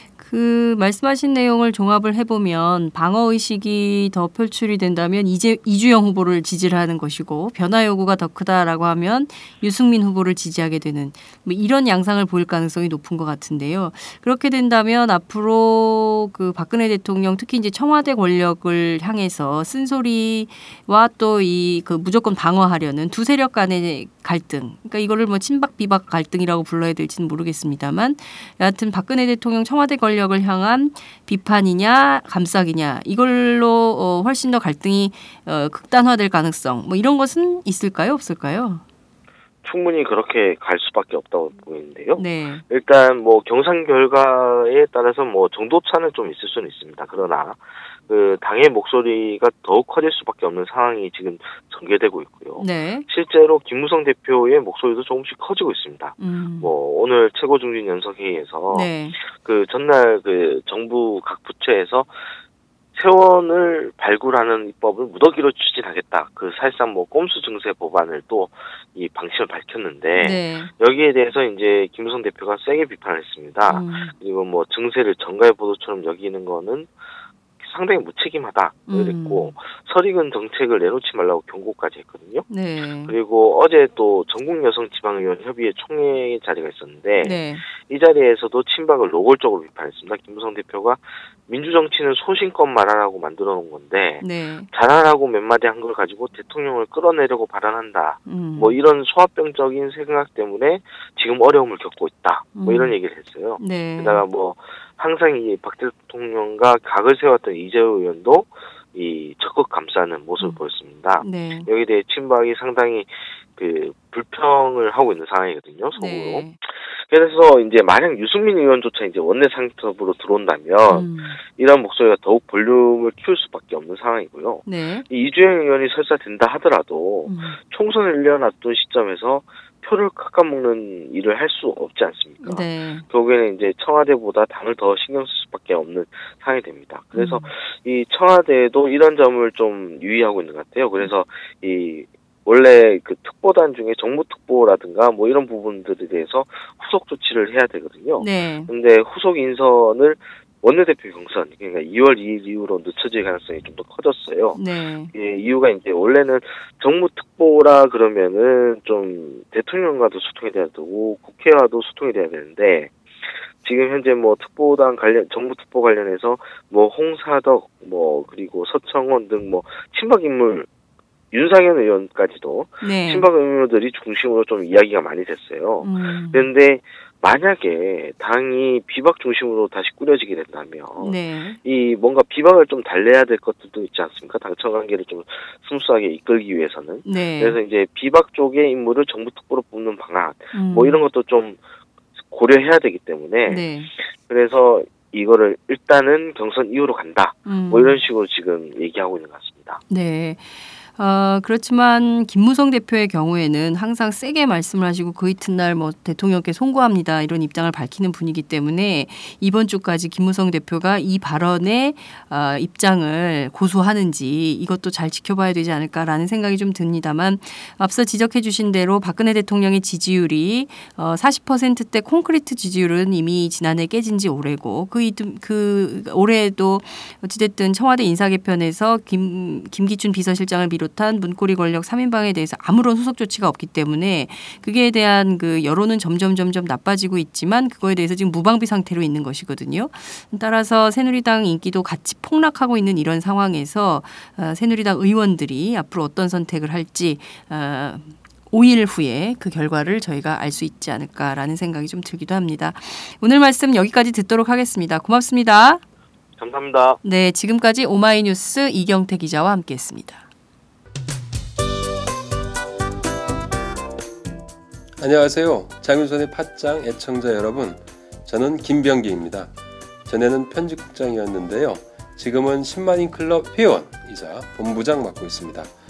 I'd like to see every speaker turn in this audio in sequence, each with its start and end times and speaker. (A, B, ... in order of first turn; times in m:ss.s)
0:00.2-0:38.8 A
0:39.6-1:02.1 B
0:42.2-0:42.6 A
0:52.6-0:53.1 A
0:56.2-0:56.7 A
0:58.7-0:59.2 A
1:02.9-1:16.9 B
1:10.2-1:10.7 A
1:13.7-1:14.1 A
1:17.6-1:22.5 B
1:18.9-1:19.6 A
1:22.5-1:23.2 A
1:23.1-2:34.6 B
1:27.2-1:27.6 A
1:34.2-1:34.7 A
1:38.3-1:38.8 A
1:42.6-1:43.0 A
1:43.6-1:44.2 A
1:51.2-1:51.7 A
1:56.0-1:56.6 A
2:00.9-2:01.4 A
2:04.6-2:05.1 A
2:07.3-2:07.6 A
2:12.4-2:13.1 A
2:17.1-2:17.5 A
2:28.2-2:28.7 A
2:34.5-2:35.1 A
2:35.1-2:42.9 B
2:43.6-2:50.7 B
2:51.3-3:11.6 B
2:52.8-2:53.3 A
2:55.8-2:56.5 A
3:01.0-3:01.6 A
3:07.0-3:07.6 A
3:10.5-3:11.0 A
3:12.3-3:13.7 B
3:13.5-3:13.9 A
3:14.2-3:19.8 B
3:17.4-3:18.0 A
3:19.9-4:15.8 A
4:16.4-4:17.0 B
4:17.0-4:20.2 A
4:25.0-4:29.5 C
4:30.1-4:35.7 C